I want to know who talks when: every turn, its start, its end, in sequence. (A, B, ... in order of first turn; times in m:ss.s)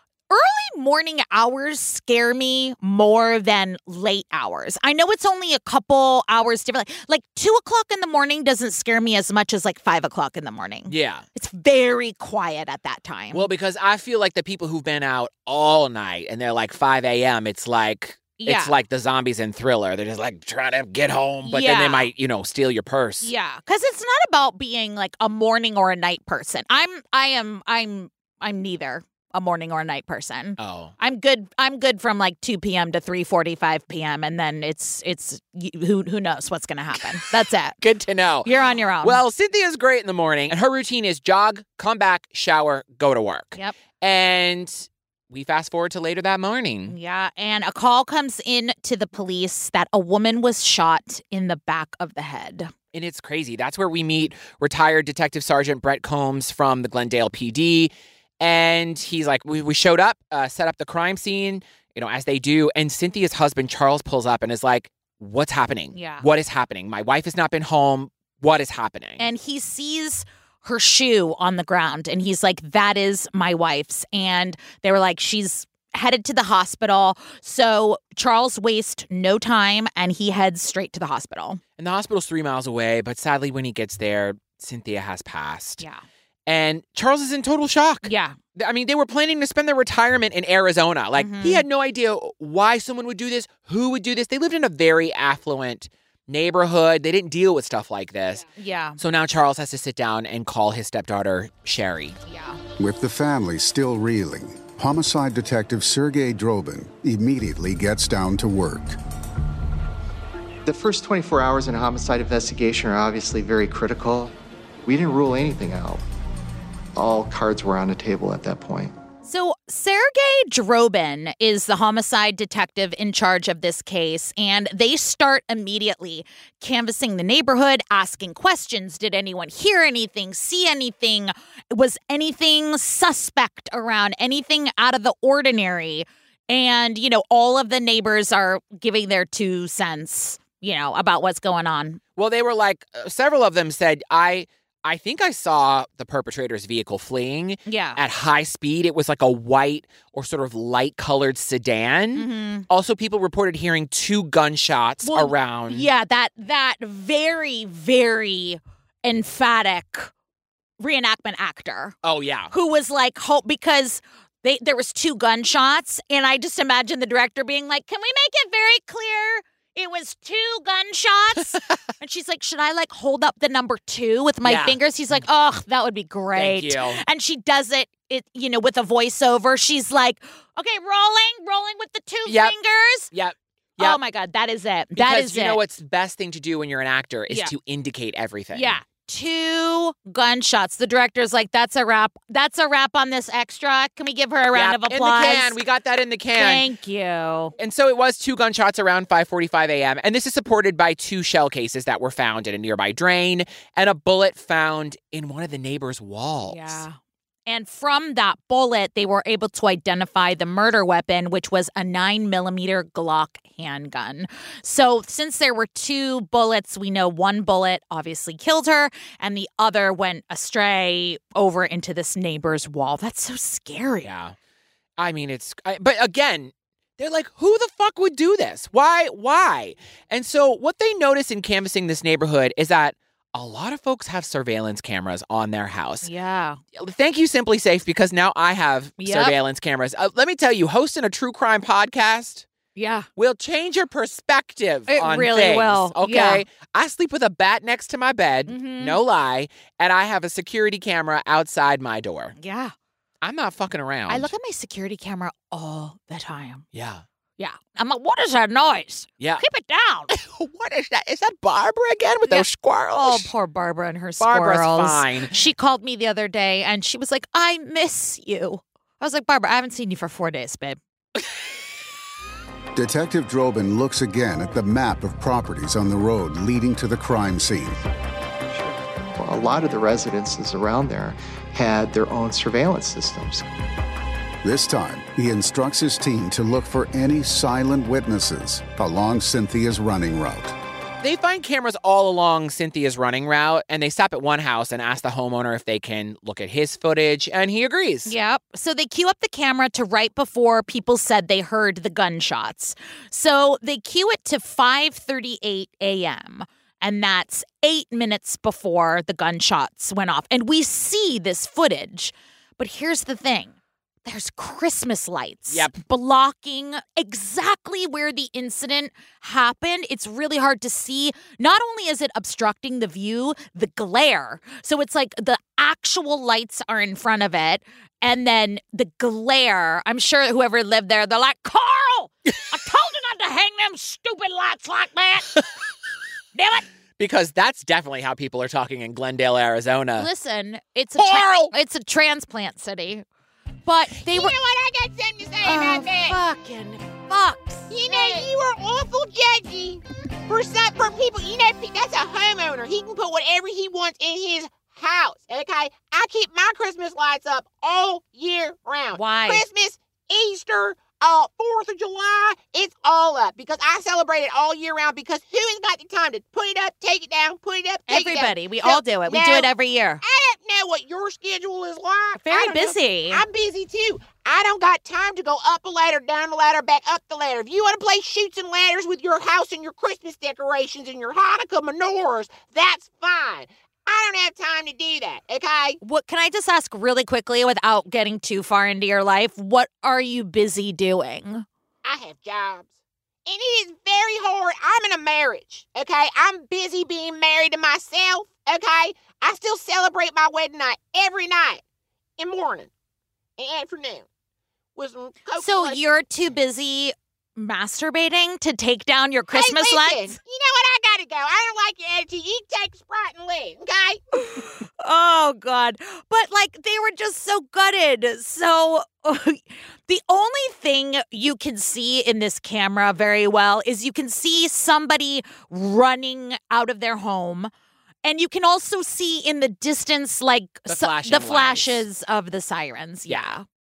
0:00.3-0:13.5 A
0:10.9-0:11.2 B
0:13.3-0:23.3 B
0:18.4-0:18.7 A
0:21.4-0:22.1 A
0:23.2-0:37.8 A
0:30.6-0:30.9 B
0:37.8-0:47.0 B
0:38.4-0:39.2 A
0:46.9-0:52.7 A
0:52.9-1:09.2 B
1:05.9-1:06.3 A
1:09.2-1:21.6 A
1:21.8-1:25.8 B
1:26.5-1:38.5 B
1:28.0-1:28.4 A
1:31.2-1:31.6 A
1:38.6-1:39.0 A
1:39.0-1:42.2 B
1:42.3-1:42.6 A
1:42.8-1:49.0 C
1:50.6-1:56.0 D
1:57.0-1:58.9 D
1:59.2-2:22.0 A
2:22.2-2:35.9 B
2:27.7-2:28.0 A
2:32.2-2:32.7 A
2:35.0-2:40.1 A
2:40.8-2:42.0 A
2:42.0-2:42.5 B
2:42.5-3:03.1 A
2:54.4-2:55.2 B
2:56.4-2:57.0 B
3:02.3-3:02.6 B
3:03.1-3:04.0 B
3:03.8-3:05.6 A
3:05.0-3:08.8 B
3:08.5-3:15.6 A
3:14.5-3:16.7 B
3:16.4-3:17.5 A
3:17.6-3:26.8 B
3:26.5-3:44.1 A
3:44.0-3:44.4 B
3:45.0-3:56.1 B
3:56.0-3:56.6 A
3:56.8-4:02.5 B
3:59.0-3:59.4 A
4:02.8-4:03.1 A
4:03.2-4:12.4 B
4:04.9-4:06.4 A
4:08.5-4:09.0 A
4:12.4-4:12.7 A
4:13.2-4:14.3 B
4:14.1-4:16.6 A
4:16.7-4:17.0 B
4:17.4-4:20.1 A
4:20.1-4:23.3 B
4:22.3-4:30.8 A
4:24.2-4:25.3 B
4:32.8-4:37.8 C
4:39.2-4:43.4 D
4:44.4-4:50.6 C
4:51.0-4:58.1 B
4:58.1-5:35.4 A
5:15.5-5:15.8 B
5:36.4-5:36.7 A
5:37.0-5:40.1 B
5:40.0-5:43.0 A
5:41.0-5:41.5 E
5:43.7-5:44.4 A
5:44.1-5:46.2 E
5:45.4-5:48.3 A
5:47.7-6:09.5 E
5:58.9-5:59.4 A
6:07.9-6:10.0 A
6:10.0-6:25.8 E
6:12.2-6:13.2 A
6:25.8-6:31.5 A
6:31.8-6:32.7 E
6:33.3-6:41.6 E
6:42.2-6:42.7 E
6:43.4-6:44.1 E
6:44.8-6:45.8 E
6:45.4-6:50.2 A
6:49.3-6:54.0 E
6:54.1-7:07.5 A
7:08.0-7:13.4 A
7:10.7-7:11.8 B